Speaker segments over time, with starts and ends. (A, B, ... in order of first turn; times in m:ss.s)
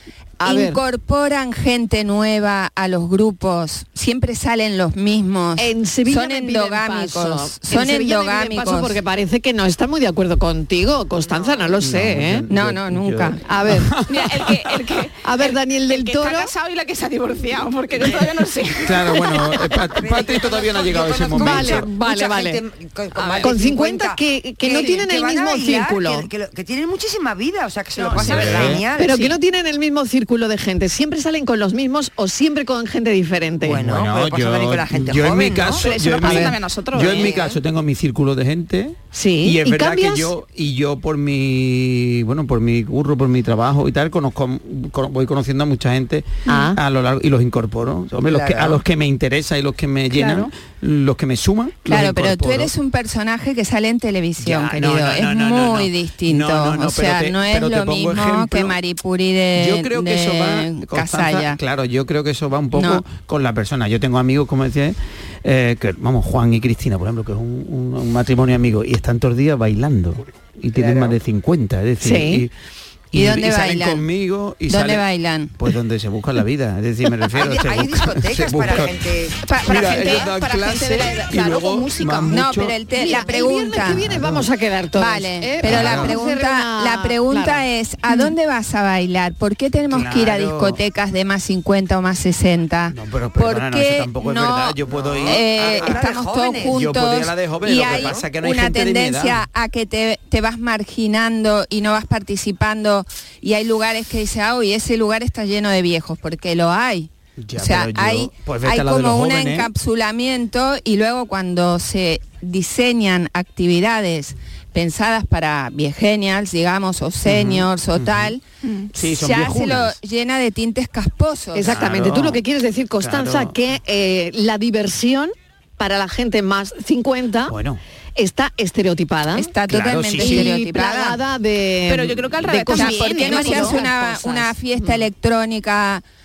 0:00.4-0:00.8 A
0:00.4-0:09.0 B
0:05.6-0:12.5 A
0:11.2-0:11.8 C
0:11.8-0:14.3 D
0:12.5-0:13.4 B
0:13.4-0:14.0 A
0:14.1-0:19.5 E
0:15.2-0:16.5 A
0:18.8-0:21.9 D
0:19.9-0:29.1 C
0:21.3-0:22.6 A
0:23.2-0:26.3 A
0:27.9-0:29.4 E
0:28.3-0:28.8 D
0:29.0-0:33.9 A
0:33.6-0:35.9 C
0:33.7-0:52.7 D
0:35.8-0:37.4 E
0:36.2-0:36.5 A
0:37.0-0:37.6 C
0:39.1-0:40.3 A
0:46.5-0:46.8 A
0:48.2-0:48.8 C
0:50.1-0:50.5 A
0:51.8-1:01.6 B
0:54.4-0:58.8 D
0:59.5-1:12.5 D
1:02.7-1:03.0 B
1:10.7-1:11.2 C
1:12.0-1:12.4 A
1:13.1-1:15.0 D
1:13.1-1:14.0 B
1:14.7-1:15.5 B
1:15.6-1:19.1 D
1:17.3-1:19.4 C
1:19.4-1:22.4 E
1:19.6-1:22.8 D
1:22.3-1:24.0 B
1:22.9-1:27.6 A
1:23.8-1:24.5 D
1:24.9-1:58.4 B
1:25.6-1:26.2 D
1:29.9-1:30.8 D
1:32.9-1:39.4 D
1:34.9-1:36.8 C
1:37.8-1:38.3 C
1:47.4-1:49.7 D
1:57.2-1:58.4 D
1:58.6-1:58.9 E
1:58.9-2:00.0 D
1:58.9-2:01.8 B
2:01.5-2:07.6 A
2:01.7-2:02.4 D
2:03.0-2:03.6 D
2:07.5-2:07.8 D
2:08.2-2:09.5 A
2:09.3-2:11.2 B
2:09.7-2:10.5 D
2:10.2-2:14.5 A
2:11.8-2:13.8 E
2:12.7-2:16.0 B